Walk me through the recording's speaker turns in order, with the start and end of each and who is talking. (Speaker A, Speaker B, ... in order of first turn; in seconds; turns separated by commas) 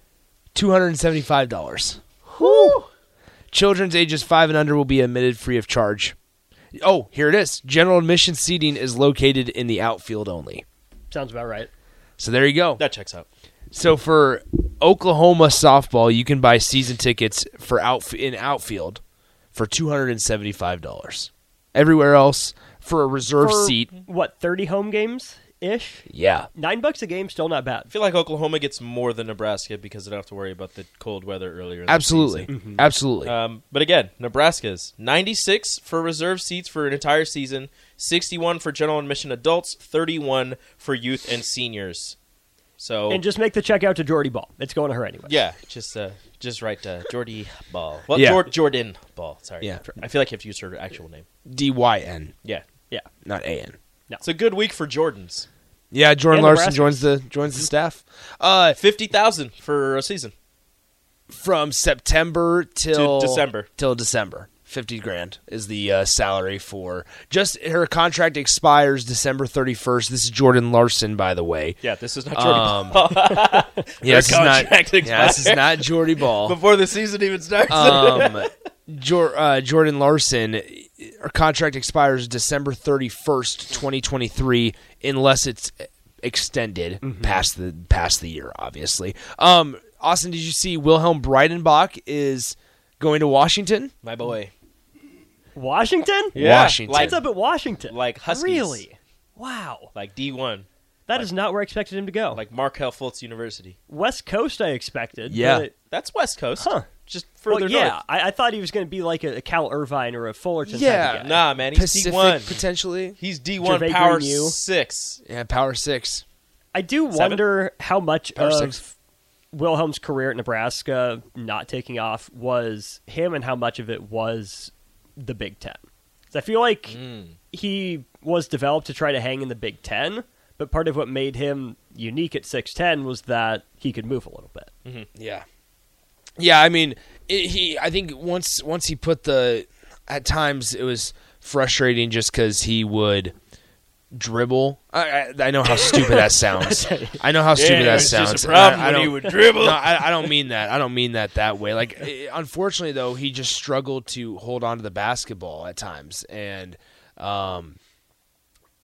Speaker A: 0.5-2.8, Speaker B: 2.4-2.8, Speaker A: 3.5-6.1, Speaker A: 6.8-10.6, Speaker B: 11.1-11.7, Speaker A: 12.2-12.8, Speaker C: 12.8-13.2, Speaker A: 13.7-19.0, Speaker A: 19.5-23.9, Speaker B: 23.4-27.9, Speaker A: 26.1-26.5, Speaker C: 27.9-32.5, Speaker A: 31.9-33.3, Speaker B: 32.5-32.8, Speaker C: 33.2-42.2, Speaker C: 42.8-43.2, Speaker B: 43.1-45.4, Speaker C: 45.2-51.2, Speaker A: 48.1-48.4, Speaker A: 51.5-52.3, Speaker A: 53.2-53.8, Speaker C: 54.2-55.5, Speaker A: 55.9-58.8, Speaker B: 56.3-57.7, Speaker C: 58.7-60.3, Speaker A: 61.3-71.8, Speaker C: 62.9-63.7, Speaker C: 71.8-78.5, Speaker A: 72.3-73.0, Speaker A: 74.0-76.6, Speaker A: 77.7-93.9, Speaker B: 87.0-87.5, Speaker C: 94.0-94.5, Speaker B: 95.5-96.3, Speaker A: 96.3-97.1, Speaker C: 96.3-97.2, Speaker B: 96.9-99.9, Speaker C: 97.9-98.8, Speaker C: 99.9-101.3, Speaker B: 101.1-102.4, Speaker C: 102.3-103.8, Speaker B: 103.9-105.7, Speaker A: 105.3-105.7, Speaker C: 105.9-108.0, Speaker B: 106.6-106.9, Speaker B: 107.5-111.4, Speaker A: 110.7-113.2, Speaker C: 111.2-112.6, Speaker C: 113.2-115.2, Speaker B: 113.6-114.6, Speaker A: 115.2-116.2, Speaker B: 116.7-118.8, Speaker C: 117.1-117.4, Speaker A: 118.3-118.9, Speaker B: 119.5-127.0, Speaker C: 126.9-127.3, Speaker B: 127.5-134.7, Speaker A: 135.1-135.4, Speaker A: 136.4-143.3, Speaker A: 144.1-157.8, Speaker B: 145.9-147.1, Speaker C: 147.5-150.3, Speaker B: 147.8-148.1